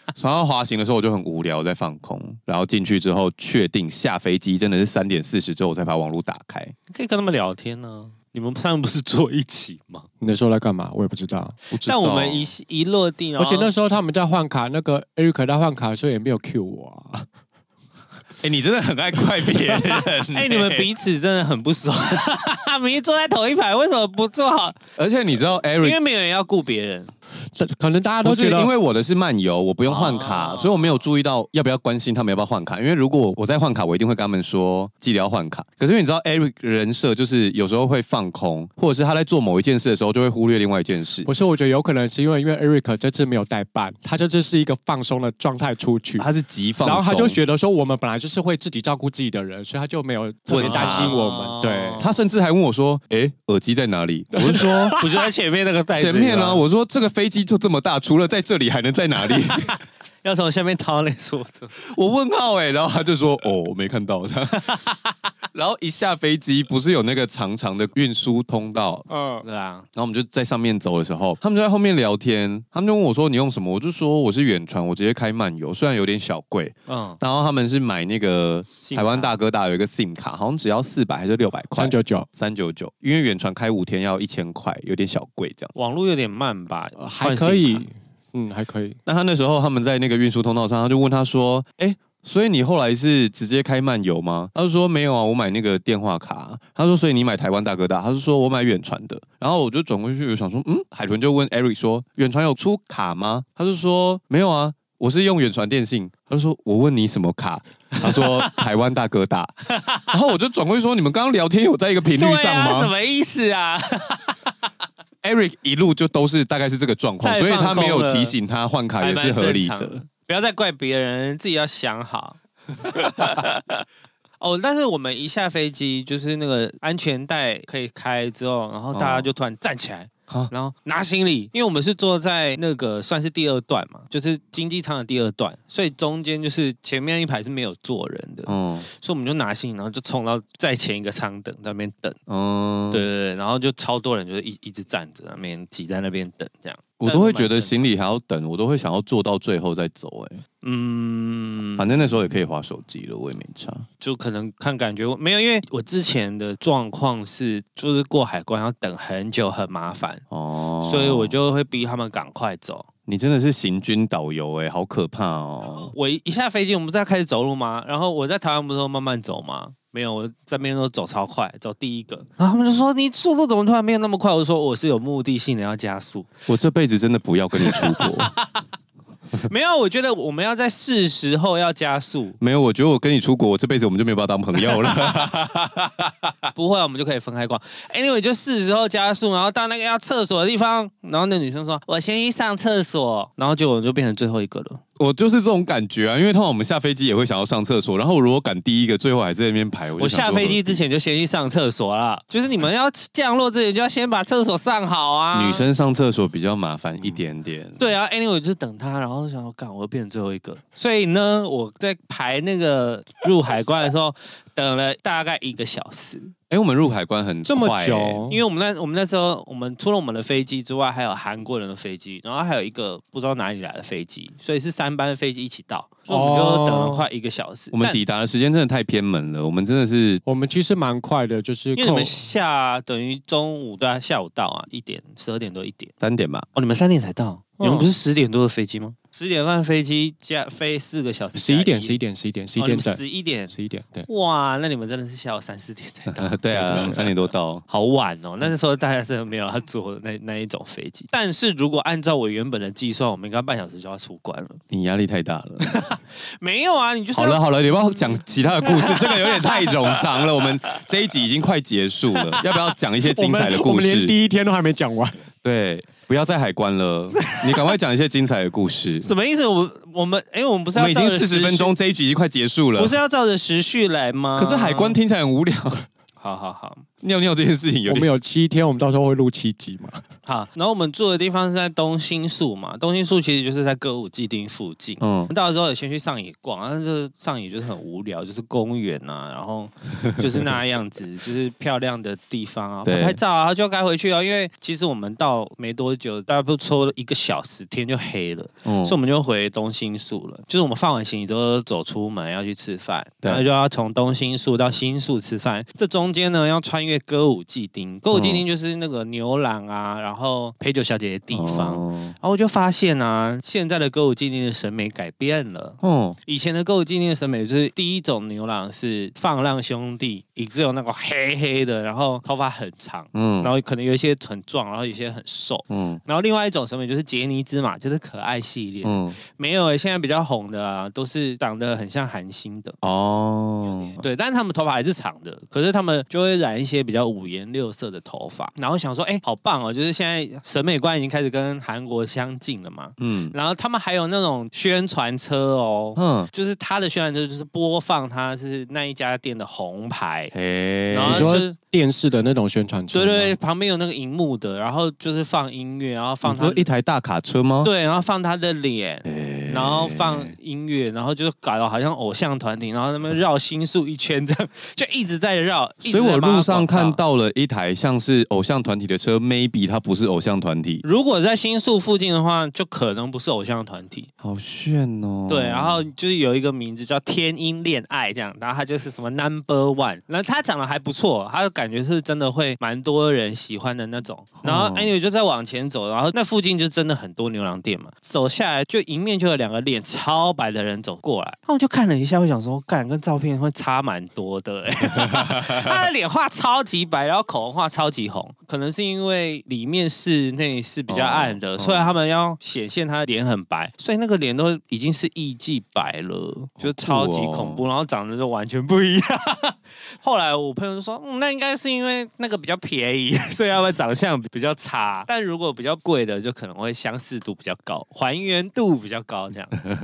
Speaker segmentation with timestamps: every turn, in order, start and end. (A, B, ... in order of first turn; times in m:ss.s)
0:00.2-0:06.7 A
0:06.9-0:10.1 B
0:10.2-0:11.6 C
0:11.7-0:12.5 A
0:11.8-0:13.7 B
0:13.4-0:17.3 C
0:18.4-0:20.9 A
0:20.3-0:24.8 B
0:25.0-0:26.0 A
0:25.8-0:27.1 B
0:27.5-0:28.7 C
0:28.2-0:41.3 A
0:29.9-0:31.0 B
0:41.2-0:46.3 C
0:46.2-0:47.4 A
0:46.8-0:52.1 C
0:50.5-0:51.2 A
0:50.6-0:52.2 B
0:52.0-0:55.0 A
0:54.4-0:55.0 C
0:54.9-0:56.6 B
0:55.9-0:59.8 A
0:59.3-1:01.7 B
1:01.8-1:04.8 A
1:04.6-1:05.1 B
1:05.5-1:09.1 A
1:09.1-1:09.4 C
1:09.4-1:09.9 B
1:10.0-1:25.7 A
1:16.9-1:17.2 B
1:18.8-1:19.4 B
1:21.7-1:22.3 C
1:25.8-1:27.9 B
1:27.0-1:29.0 C
1:29.1-1:49.5 A
1:47.9-1:48.6 B
1:49.7-1:50.1 B
1:50.1-1:52.9 A
1:52.2-1:54.4 B
1:55.2-2:00.0 A
1:57.2-1:58.4 B
1:59.0-2:03.8 B
2:04.4-2:22.2 B
2:08.9-2:09.3 A
2:18.5-2:18.9 A
2:22.3-2:23.0 A
2:22.9-2:27.9 B
2:27.0-2:30.4 A
2:30.6-2:32.1 B
2:31.8-2:33.9 A
2:34.0-2:40.2 B
2:40.3-2:41.4 A
2:40.8-2:42.9 B
2:43.1-2:45.9 A
2:45.8-2:56.3 B
2:56.5-2:58.3 A
2:57.6-2:58.6 B
2:59.4-3:02.4 B
3:02.4-3:06.1 A
3:04.6-3:05.5 B
3:06.5-3:14.8 B
3:15.0-3:20.8 A
3:20.0-3:25.6 B
3:25.3-3:27.8 A
3:27.8-3:36.3 B
3:36.5-3:38.3 A
3:37.4-3:38.4 C
3:38.3-3:48.0 B
3:46.1-3:47.0 C
3:47.7-3:50.2 A
3:50.2-3:52.3 C
3:51.8-3:55.9 B
3:56.0-3:56.5 A
3:56.6-4:02.0 B
3:57.6-3:57.9 C
4:01.4-4:04.1 C
4:02.6-4:03.6 B
4:04.1-4:07.2 B
4:06.1-4:07.6 A
4:07.7-4:14.6 B
4:14.7-4:15.8 A
4:15.6-4:17.4 B
4:17.2-4:24.1 A
4:18.6-4:20.8 B
4:22.2-4:22.4 B
4:23.0-4:25.2 C
4:25.4-4:29.1 A
4:27.1-4:27.7 B
4:29.0-4:31.7 B
4:30.8-4:33.0 A
4:32.8-4:35.0 B
4:34.4-4:35.9 A
4:36.2-4:36.8 B
4:37.0-4:38.1 A
4:37.9-4:40.0 C
4:40.3-5:32.8 B
4:45.0-4:45.3 A
4:52.8-4:53.2 A
4:58.6-4:59.0 A
5:08.1-5:08.4 A
5:11.3-5:12.2 A
5:15.8-5:16.2 A
5:23.1-5:23.5 A
5:25.7-5:26.0 A
5:28.8-5:29.2 A
5:32.8-5:34.0 A
5:34.0-5:50.3 B
5:43.0-5:43.4 A
5:46.0-5:46.3 A
5:50.3-5:51.4 A
5:50.9-5:51.6 B
5:51.0-5:53.4 C
5:52.9-5:56.7 B
5:56.2-5:57.7 A
5:57.6-6:07.0 B
5:59.1-6:00.3 A
6:05.8-6:10.8 A
6:10.8-6:14.1 B
6:14.2-6:15.8 A
6:15.3-6:59.6 B
6:24.4-6:24.9 A
6:35.1-6:35.5 A
6:40.9-6:41.9 A
6:46.6-6:47.6 A